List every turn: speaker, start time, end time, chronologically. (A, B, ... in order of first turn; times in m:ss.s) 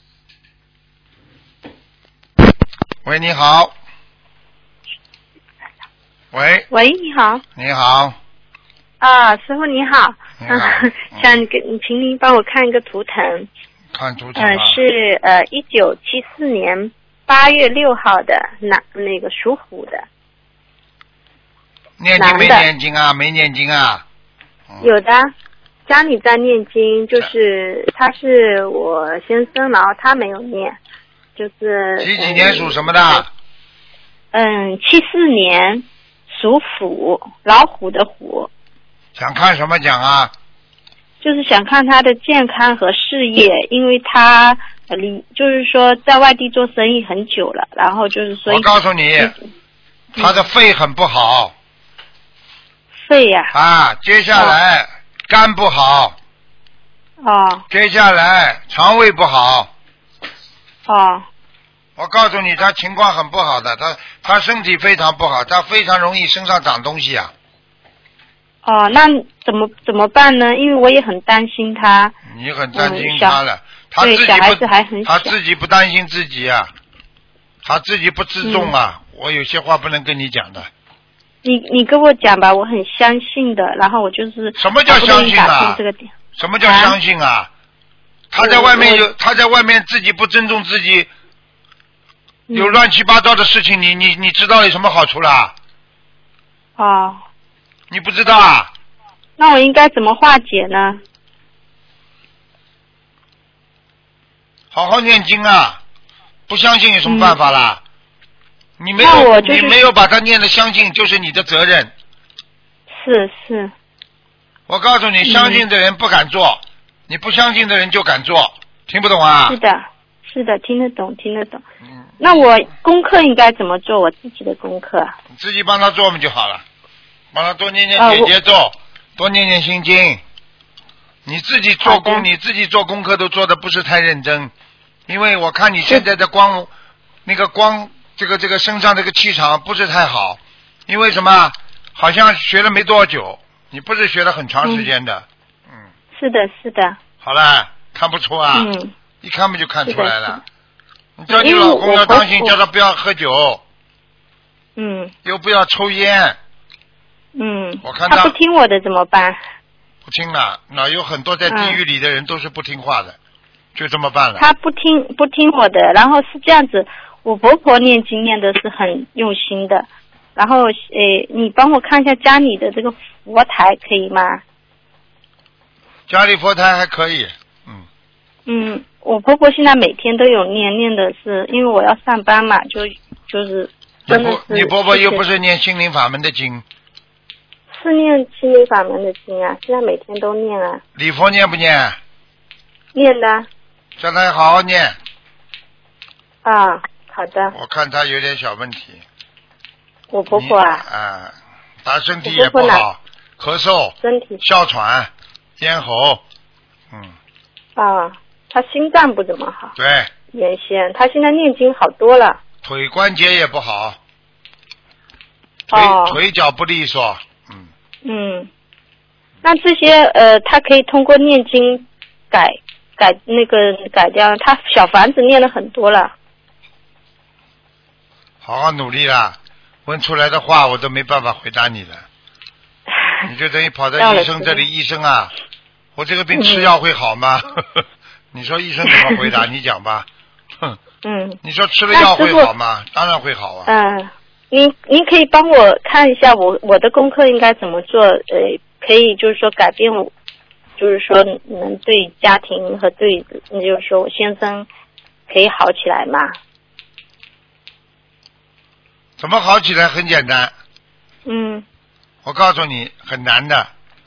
0:03.0-0:03.7 A
0:06.3-0:06.7 A
0:06.7-0:07.4 B
0:07.6-0:08.2 A
0:09.0-0:13.5 B
0:10.4-0:11.4 A
0:13.9-0:14.8 A
0:14.4-0:20.0 B
0:22.0-0:24.0 A
0:22.2-0:22.7 B
0:24.8-0:25.3 B
0:25.9-0:30.8 B
0:31.4-0:33.2 B
0:32.0-0:33.3 A
0:34.3-0:38.5 B
0:39.2-0:40.3 A
0:41.2-0:48.7 B
0:48.4-0:49.3 A
0:50.2-0:51.5 A
0:53.0-0:53.5 B
0:53.5-0:56.1 A
0:57.2-0:57.6 B
0:57.7-0:59.7 A
1:00.9-1:01.2 B
1:02.0-1:07.3 A
1:08.6-1:12.1 B
1:12.2-1:16.7 A
1:12.7-1:13.4 B
1:14.0-1:15.3 B
1:17.6-1:20.7 A
1:18.4-1:18.7 B
1:21.4-1:26.1 B
1:24.6-1:25.8 A
1:26.4-1:27.5 A
1:26.6-1:27.0 B
1:28.3-1:31.1 A
1:28.4-1:29.0 B
1:32.5-1:32.8 B
1:32.5-1:35.5 A
1:36.8-1:37.2 B
1:37.9-1:38.7 A
1:39.4-1:41.0 B
1:44.7-1:45.8 A
1:46.5-1:47.8 A
1:47.0-1:47.4 B
1:48.8-1:51.9 A
1:49.0-1:49.8 B
1:52.9-1:53.7 B
1:54.7-1:59.6 A
1:55.2-1:55.6 B
1:59.5-2:01.6 B
2:02.2-2:05.1 B
2:05.3-2:06.6 A
2:07.3-2:10.2 A
2:08.0-2:08.3 B
2:11.2-2:14.5 A
2:11.8-2:12.2 B
2:15.1-2:16.7 A
2:17.2-2:25.8 A
2:26.1-2:27.0 B
2:27.2-2:28.7 A
2:28.5-2:28.9 B
2:29.2-2:30.4 A
2:29.9-2:30.4 B
2:31.2-2:33.6 A
2:31.3-2:32.5 B
2:34.8-2:35.1 B
2:35.2-2:36.4 A
2:37.3-2:39.4 B
2:37.8-2:38.3 A
2:40.0-2:43.2 A
2:41.5-2:41.8 B
2:43.7-2:44.4 A
2:44.4-2:54.4 B
2:56.1-2:57.8 A
2:58.5-3:05.2 B
3:04.1-3:06.6 A
3:07.7-3:10.8 B
3:11.0-3:12.0 A
3:12.9-3:13.5 B
3:14.0-3:15.0 A
3:16.4-3:17.5 B
3:17.5-3:19.0 A
3:20.1-3:20.8 B
3:20.3-3:21.3 A
3:21.8-3:26.2 A
3:22.2-3:22.8 B
3:24.0-3:24.4 B
3:27.8-3:29.7 B
3:29.8-3:30.1 A
3:30.3-3:32.4 B
3:32.6-3:34.0 A
3:35.7-3:36.2 B
3:35.7-3:37.7 A
3:38.0-3:38.5 B
3:39.4-3:46.1 B
3:48.4-3:52.0 A
3:53.2-3:55.3 A
3:54.0-3:54.6 B
3:56.0-4:00.0 A
3:56.3-3:56.7 B
3:58.9-3:59.3 B
4:01.0-4:01.4 B
4:01.4-4:03.7 A
4:01.9-4:02.5 B
4:03.6-4:10.1 B
4:10.8-4:14.7 B
4:15.3-4:16.4 B
4:19.2-4:20.5 A
4:21.2-4:21.6 B
4:22.2-4:23.7 A